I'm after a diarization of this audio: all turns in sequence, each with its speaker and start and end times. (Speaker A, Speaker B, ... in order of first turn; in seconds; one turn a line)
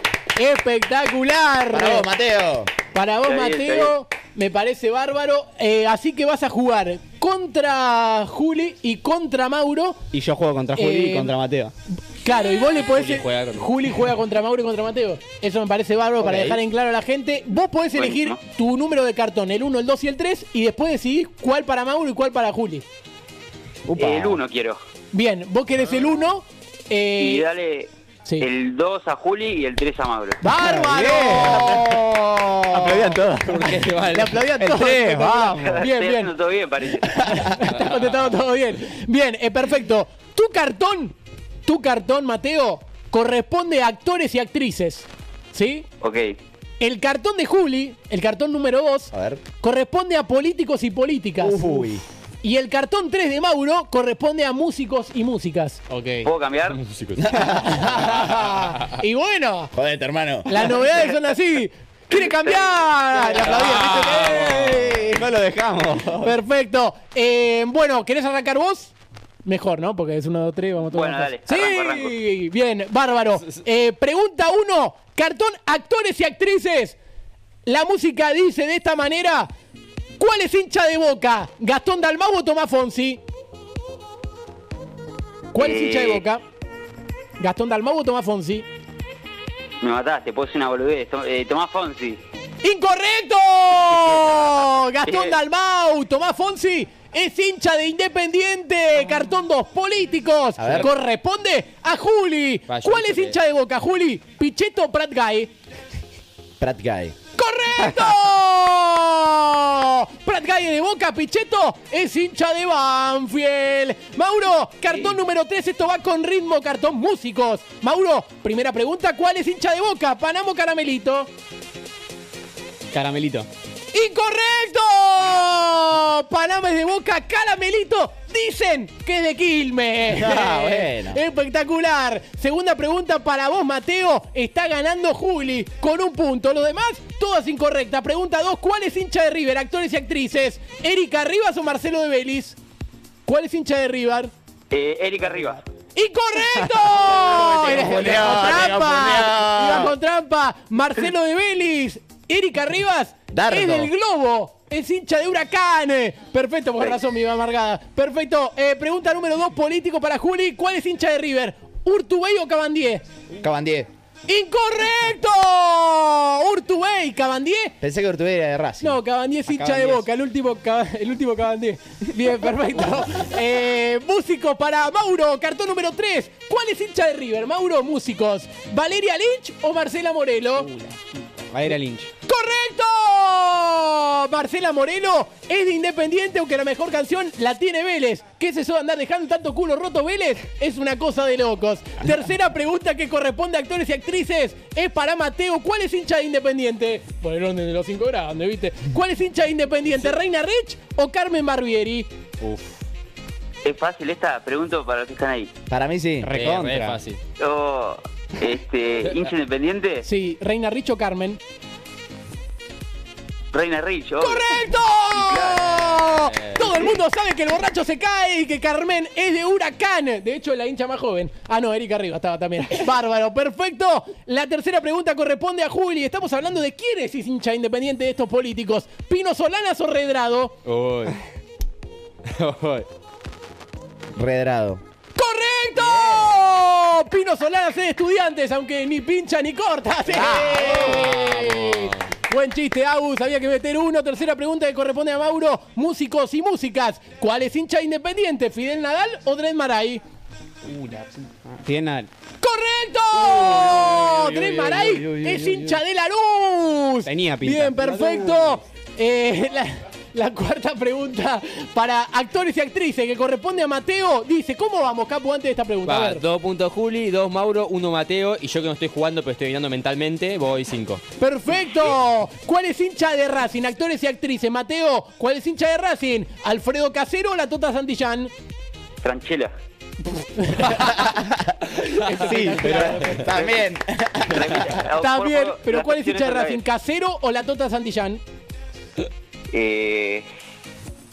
Speaker A: 0.3-2.1
Speaker B: 1.7-2.7
Speaker A: 2.9-10.0
Speaker C: 3.2-3.9
Speaker D: 10.1-11.7
Speaker A: 10.7-11.3
Speaker A: 12.1-22.8
Speaker E: 12.9-13.7
Speaker B: 16.2-16.6
Speaker C: 17.9-18.4
Speaker B: 23.9-24.4
Speaker C: 23.9-24.8
Speaker A: 25.1-27.4
Speaker C: 27.2-30.4
Speaker A: 30.4-33.1
Speaker D: 30.6-31.8
Speaker B: 31.2-31.8
Speaker D: 32.7-33.7
Speaker E: 33.4-34.4
Speaker A: 34.1-36.3
Speaker D: 34.6-35.8
Speaker C: 35.6-37.3
Speaker A: 37.0-41.1
Speaker A: 41.6-45.9
Speaker C: 46.0-46.3
Speaker A: 46.8-51.9
Speaker B: 49.1-49.4
Speaker B: 51.4-52.0
Speaker A: 52.4-55.8
Speaker E: 55.9-57.4
Speaker C: 56.2-56.8
Speaker B: 57.2-58.3
Speaker A: 57.6-59.7
Speaker B: 59.7-60.8
Speaker A: 60.5-64.7
Speaker B: 63.2-65.3
Speaker E: 63.9-64.3
Speaker D: 64.4-66.3
Speaker A: 66.2-68.9
Speaker A: 69.4-77.0
Speaker C: 70.9-72.1
Speaker A: 77.7-79.5
Speaker A: 80.2-83.2
Speaker A: 85.5-86.4
Speaker C: 85.5-86.2
Speaker A: 87.4-88.7
Speaker C: 89.8-92.2
Speaker A: 92.6-105.5
Speaker C: 95.0-95.4
Speaker B: 100.6-100.9
Speaker E: 102.7-103.3
Speaker B: 106.6-107.1
Speaker A: 107.3-121.3
Speaker D: 122.9-123.5
Speaker A: 123.9-142.6
Speaker B: 130.1-131.2
Speaker A: 143.2-144.3
Speaker C: 144.7-145.6
Speaker A: 145.9-163.0
Speaker B: 147.0-149.9
Speaker B: 153.3-153.9
Speaker B: 163.4-163.9
Speaker A: 164.3-167.7
Speaker B: 167.8-169.0
Speaker A: 168.8-180.7
Speaker D: 169.5-170.1
Speaker D: 180.6-182.1
Speaker A: 182.2-202.1
Speaker E: 202.4-202.8
Speaker C: 203.6-205.5
Speaker B: 205.7-206.3
Speaker D: 206.2-207.0
Speaker E: 206.3-207.2
Speaker C: 207.4-210.0
Speaker A: 210.0-211.4
Speaker C: 213.5-215.7
Speaker A: 214.2-230.6
Speaker E: 216.1-216.7
Speaker E: 230.6-231.2
Speaker E: 232.2-232.9
Speaker B: 234.1-234.8
Speaker A: 235.2-250.0
Speaker B: 240.2-241.0
Speaker E: 240.6-242.0
Speaker D: 250.6-252.1
Speaker A: 252.4-266.2
Speaker B: 254.9-255.6
Speaker D: 257.0-258.1
Speaker E: 265.9-271.0
Speaker A: 271.2-278.3
Speaker C: 279.0-279.5
Speaker A: 280.4-280.9
Speaker B: 280.6-281.6
Speaker A: 282.0-283.4
Speaker B: 282.2-284.8
Speaker D: 282.2-283.1
Speaker C: 284.3-286.6
Speaker A: 285.0-288.2
Speaker C: 289.5-290.2